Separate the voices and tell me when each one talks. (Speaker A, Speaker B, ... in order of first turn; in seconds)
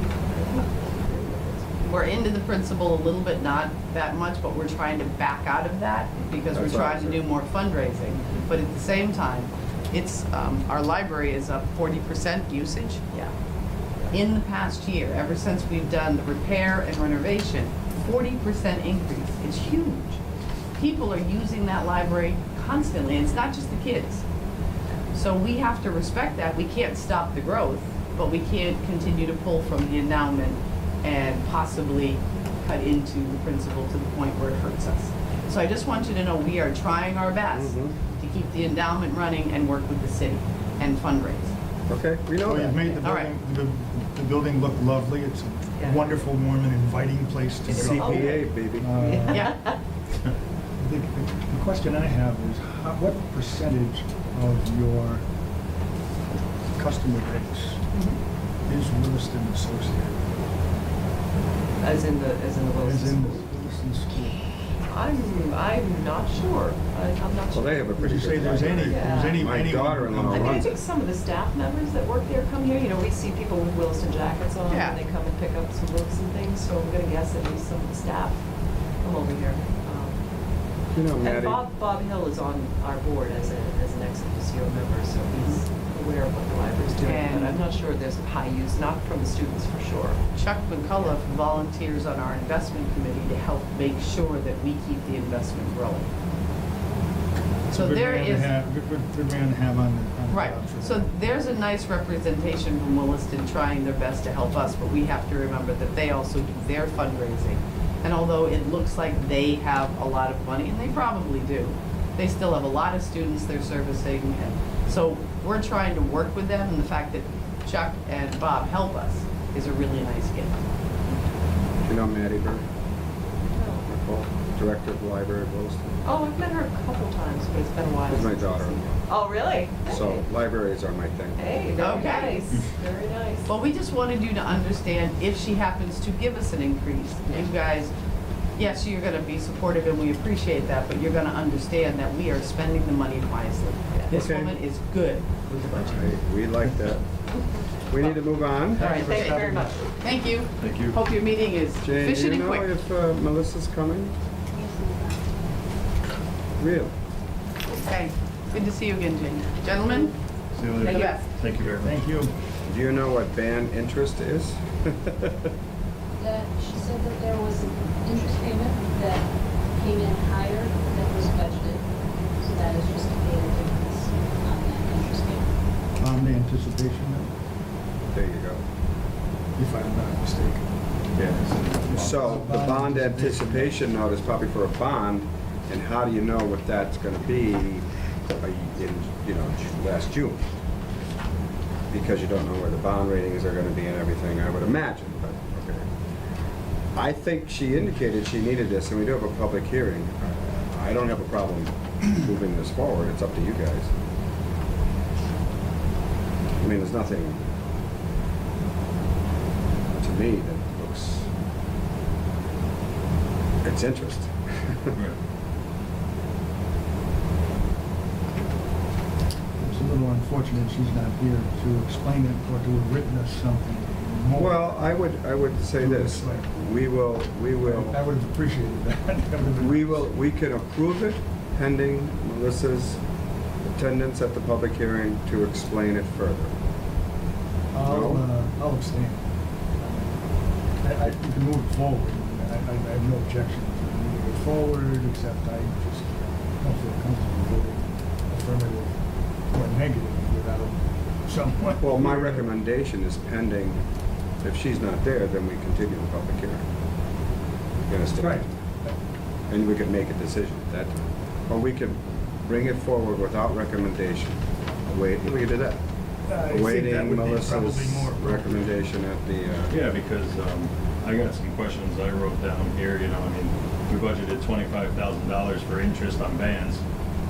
Speaker A: 0.3-1.7, 45.8-46.1, 47.7-49.8, 61.8-63.4, 64.9-67.9, 68.8-69.4, 70.3-78.4, 79.0-80.2, 81.2-90.2, 123.5-123.9, 126.0-130.2, 131.4-133.5, 147.9-148.2, 148.8-149.8
Speaker B: 1.8-13.1, 14.1-20.2, 20.8-24.2, 25.1-41.5, 43.0-43.3, 49.3-49.6, 74.7-75.0, 87.0-87.6, 90.3-96.1, 97.7-98.5, 100.3-120.6, 131.8-132.4, 133.5-137.9, 138.6-146.1, 148.8-149.4, 150.0-152.7, 157.7-160.2, 160.8-161.3
Speaker C: 6.5-7.2, 37.5-38.0, 41.9-42.8, 47.7-48.9, 67.5-70.7, 80.9-81.6, 121.8-122.6, 123.9-126.0, 128.1-129.0, 129.9-131.4, 131.9-132.2, 144.1-144.6, 145.8-147.1, 147.9-149.0, 151.8-154.1, 156.6-156.9, 162.7-165.5, 178.1-178.6, 181.9-187.9, 188.4-190.4, 191.9-195.9, 196.9-203.9, 206.6-207.4, 209.9-211.3, 213.6-214.9, 224.3-228.0, 229.5-233.0, 233.6-236.5, 237.8-238.3, 251.8-253.8, 254.4-256.6, 257.9-258.5, 259.5-265.8, 266.5-269.8
Speaker D: 42.4-49.5, 50.8-55.2, 56.8-57.9, 58.6-60.3, 62.8-64.6, 68.0-70.8, 97.7-101.2, 148.8-149.7, 161.8-162.3, 176.0-177.3, 179.6-180.7, 181.8-183.8, 219.6-225.0, 225.8-226.5, 227.6-230.1, 237.7-252.5, 258.2-258.9, 266.3-268.8
Speaker E: 150.6-151.0, 160.5-162.0, 181.2-182.2, 269.7-276.8
Speaker F: 154.5-155.3, 166.2-171.8, 172.4-175.5